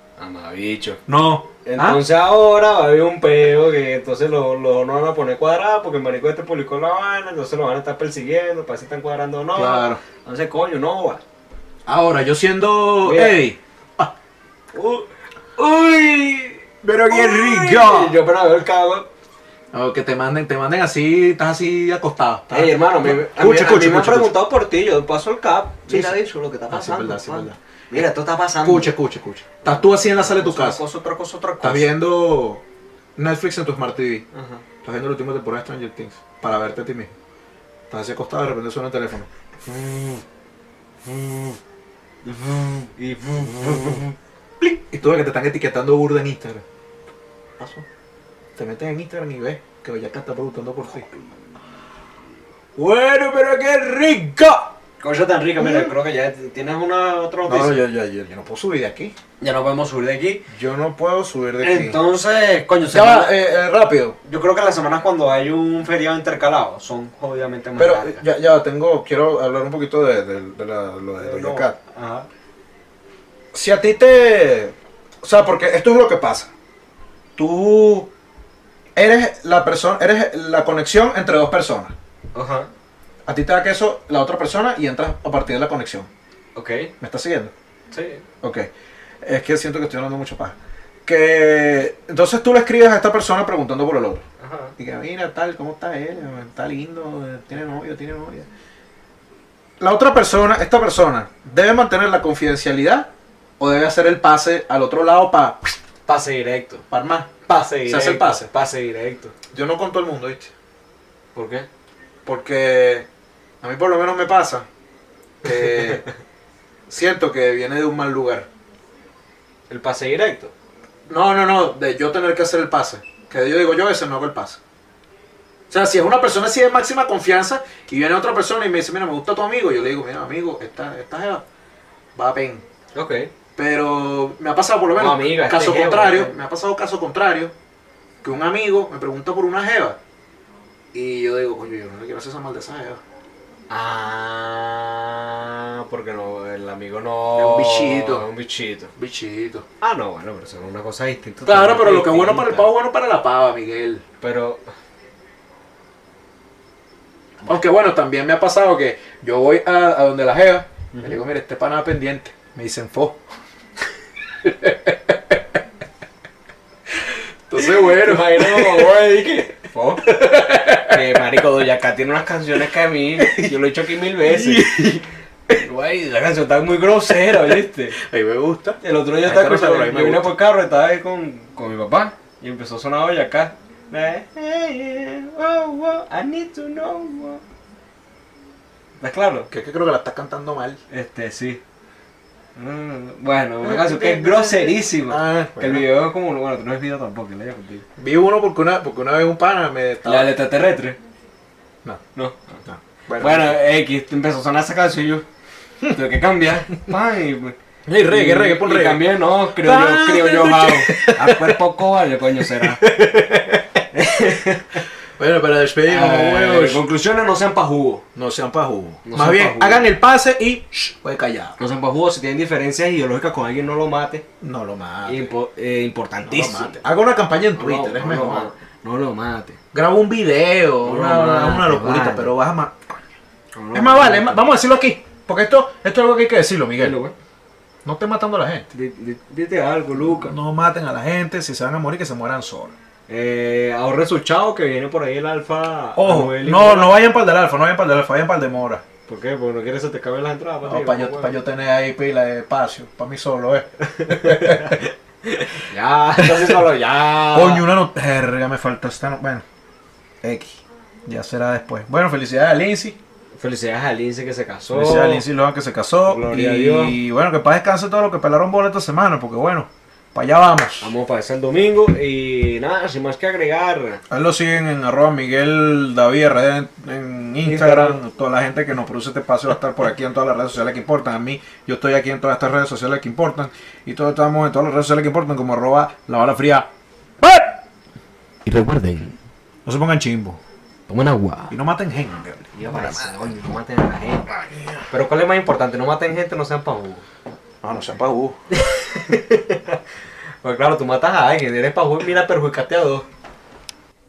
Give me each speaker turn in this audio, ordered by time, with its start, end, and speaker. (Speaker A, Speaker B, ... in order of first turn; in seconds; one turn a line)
Speaker A: 0.2-1.0
Speaker B: 1.1-2.0
Speaker A: 1.6-11.2
Speaker B: 9.5-10.0
Speaker B: 11.8-14.1
Speaker A: 13.0-13.4
Speaker A: 14.7-19.1
Speaker B: 16.8-18.2
Speaker B: 19.7-24.3
Speaker A: 22.5-28.9
Speaker B: 25.9-28.0
Speaker B: 28.6-30.8
Speaker A: 29.6-31.9
Speaker B: 31.6-32.6
Speaker B: 33.2-34.2
Speaker A: 34.3-34.6
Speaker B: 34.8-37.1
Speaker B: 37.9-39.3
Speaker A: 39.6-40.2
Speaker A: 41.1-41.6
Speaker A: 42.2-44.1
Speaker B: 44.6-46.6
Speaker B: 47.6-47.9
Speaker B: 48.5-51.3
Speaker B: 52.8-54.7
Speaker A: 55.0-57.8
Speaker B: 55.6-55.9
Speaker B: 57.4-59.1
Speaker A: 59.4-60.4
Speaker B: 60.5-62.0
Speaker A: 61.6-63.3
Speaker B: 62.8-64.2
Speaker A: 64.2-68.2
Speaker B: 67.8-71.7
Speaker A: 71.2-72.3
Speaker B: 73.5-76.5
Speaker B: 77.4-78.1
Speaker B: 79.0-81.9
Speaker A: 82.3-82.7
Speaker B: 83.3-86.1
Speaker A: 86.5-86.9
Speaker B: 87.0-87.5
Speaker A: 87.9-88.2
Speaker B: 88.4-88.7
Speaker B: 89.2-90.5
Speaker B: 91.0-94.2
Speaker A: 94.4-94.7
Speaker B: 94.8-98.5
Speaker B: 99.8-105.8
Speaker A: 106.0-106.8
Speaker B: 106.9-107.3
Speaker A: 107.5-109.3
Speaker B: 107.8-108.5
Speaker B: 109.5-110.5
Speaker A: 111.3-111.7
Speaker B: 112.2-113.1
Speaker B: 113.6-114.7
Speaker B: 115.4-116.0
Speaker A: 115.5-116.0
Speaker B: 116.9-118.5
Speaker A: 119.7-120.5
Speaker B: 121.1-124.6
Speaker B: 125.7-131.4
Speaker B: 132.2-132.6
Speaker A: 132.9-133.3
Speaker B: 133.6-137.5
Speaker A: 134.9-136.3
Speaker B: 138.2-140.0
Speaker B: 140.9-143.0
Speaker A: 143.7-148.9
Speaker B: 147.3-148.2
Speaker B: 148.9-149.6
Speaker A: 149.8-152.7
Speaker B: 151.4-154.0
Speaker A: 154.2-154.6
Speaker B: 157.4-163.2
Speaker B: 164.4-165.2
Speaker B: 167.5-169.3
Speaker A: 167.6-170.2
Speaker B: 170.1-171.2
Speaker A: 170.7-174.7
Speaker B: 173.2-173.6
Speaker B: 174.2-175.6
Speaker A: 175.5-178.0
Speaker B: 177.1-180.3
Speaker A: 178.8-187.4
Speaker A: 189.0-189.5
Speaker B: 189.5-190.8
Speaker A: 190.9-191.6
Speaker A: 192.6-197.8
Speaker B: 193.6-195.9
Speaker B: 198.0-200.3
Speaker A: 200.0-201.0
Speaker A: 202.1-202.6
Speaker B: 202.6-203.6
Speaker A: 203.2-205.2
Speaker A: 205.9-212.8
Speaker B: 207.8-211.6
Speaker B: 212.3-213.7
Speaker A: 213.9-214.8
Speaker B: 215.2-216.8
Speaker A: 215.8-218.0
Speaker B: 218.1-221.6
Speaker A: 219.0-219.9
Speaker A: 221.6-224.2
Speaker B: 224.4-225.3
Speaker A: 225.1-226.8
Speaker B: 226.2-228.5
Speaker A: 227.6-229.6
Speaker B: 229.7-232.8
Speaker A: 230.8-232.3
Speaker A: 233.5-234.4
Speaker B: 233.7-237.0
Speaker A: 236.8-237.1
Speaker B: 237.8-238.7
Speaker A: 238.7-240.3
Speaker B: 239.9-242.8
Speaker A: 243.1-247.0
Speaker B: 245.9-248.8
Speaker A: 249.1-251.4
Speaker B: 250.6-254.8
Speaker A: 253.8-257.6
Speaker B: 256.2-256.6
Speaker B: 257.3-259.4
Speaker B: 260.2-263.0
Speaker A: 263.4-265.2
Speaker B: 264.7-270.9
Speaker A: 266.1-267.0
Speaker A: 270.8-274.0
Speaker B: 274.1-286.7
Speaker A: 277.4-278.0
Speaker B: 287.2-287.6
Speaker A: 288.4-289.2
Speaker B: 289.6-290.4
Speaker A: 290.9-291.5
Speaker B: 291.5-293.4
Speaker A: 292.5-294.4
Speaker B: 294.5-294.8
Speaker A: 294.9-297.0
Speaker B: 297.6-298.3
Speaker A: 298.5-299.8
Speaker A: 300.4-303.0